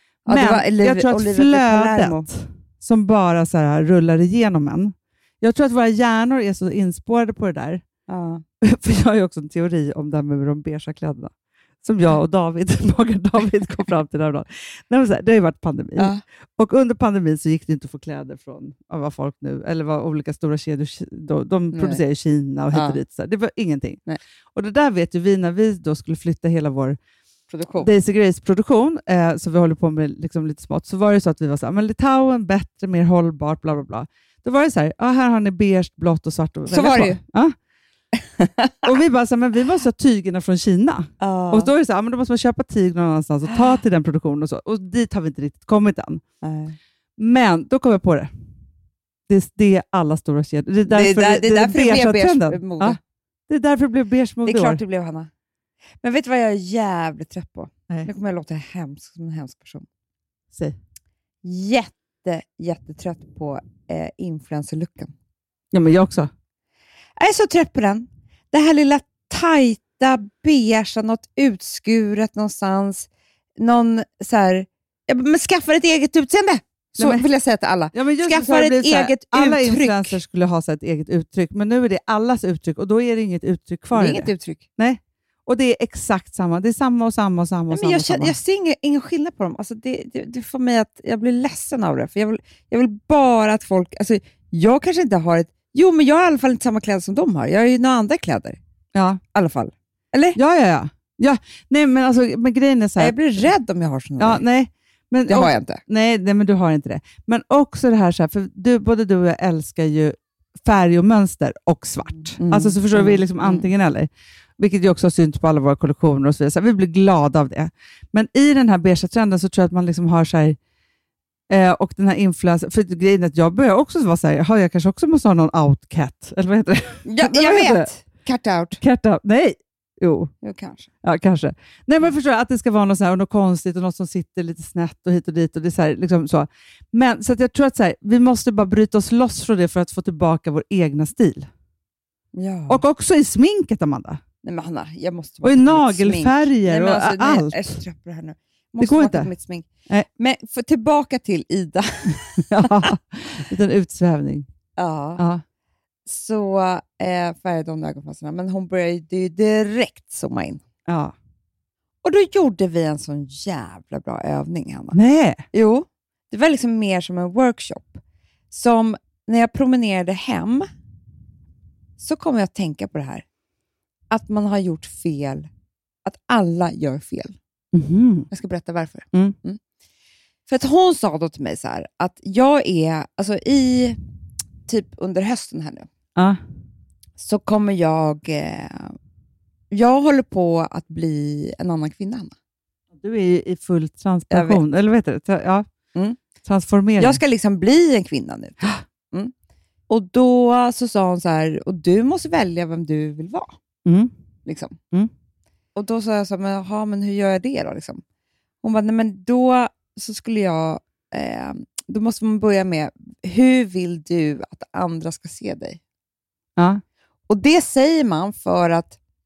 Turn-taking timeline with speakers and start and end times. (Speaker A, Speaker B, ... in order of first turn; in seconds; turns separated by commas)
Speaker A: 0.2-2.3, Speaker B: 0.3-7.8, Speaker A: 8.1-8.4, Speaker B: 8.6-11.3, Speaker B: 11.8-24.0, Speaker A: 21.7-22.0, Speaker A: 22.7-23.0, Speaker B: 24.5-27.0, Speaker A: 27.5-27.9, Speaker B: 27.8-37.5, Speaker A: 36.7-37.2, Speaker A: 38.4-38.8, Speaker B: 38.8-46.2, Speaker A: 41.2-41.7, Speaker A: 46.4-46.8, Speaker B: 47.2-48.3, Speaker B: 49.3-54.8, Speaker A: 50.9-53.0, Speaker A: 54.4-55.3, Speaker A: 56.0-59.9, Speaker A: 61.4-65.1, Speaker B: 65.7-66.3, Speaker A: 67.2-73.1, Speaker A: 73.6-80.2, Speaker B: 77.0-77.2, Speaker B: 77.9-88.3, Speaker A: 83.9-84.6, Speaker A: 87.7-98.6, Speaker B: 98.9-99.2, Speaker A: 99.3-100.4, Speaker B: 100.3-103.2, Speaker A: 103.0-104.4, Speaker B: 104.2-120.6, Speaker A: 105.3-105.8, Speaker A: 112.4-113.7, Speaker B: 121.5-127.9, Speaker A: 127.0-128.8, Speaker B: 128.8-130.3, Speaker A: 130.4-130.9, Speaker B: 131.0-141.5, Speaker A: 142.3-142.8, Speaker B: 142.7-144.2, Speaker A: 144.4-149.7, Speaker B: 145.4-147.8, Speaker B: 148.8-149.3, Speaker A: 150.2-152.9, Speaker B: 152.5-154.5, Speaker A: 154.8-155.2, Speaker B: 155.2-155.4, Speaker A: 156.1-160.6, Speaker B: 160.9-161.1, Speaker A: 162.0-164.9, Speaker B: 164.9-165.4, Speaker A: 165.5-168.0, Speaker A: 168.5-170.7, Speaker A: 172.0-173.2, Speaker A: 174.1-175.5, Speaker A: 176.0-177.4, Speaker B: 177.7-178.3, Speaker A: 178.3-179.6, Speaker A: 180.5-184.0, Speaker A: 184.7-185.9, Speaker B: 186.2-186.4, Speaker A: 187.2-188.9, Speaker A: 189.7-192.3, Speaker B: 193.0-195.7, Speaker A: 194.3-194.6, Speaker B: 196.4-197.2, Speaker A: 197.0-199.3, Speaker A: 199.9-203.5, Speaker B: 203.8-204.1, Speaker A: 204.4-204.8, Speaker A: 205.7-208.0, Speaker A: 208.6-215.8, Speaker B: 216.6-216.8, Speaker A: 217.3-219.0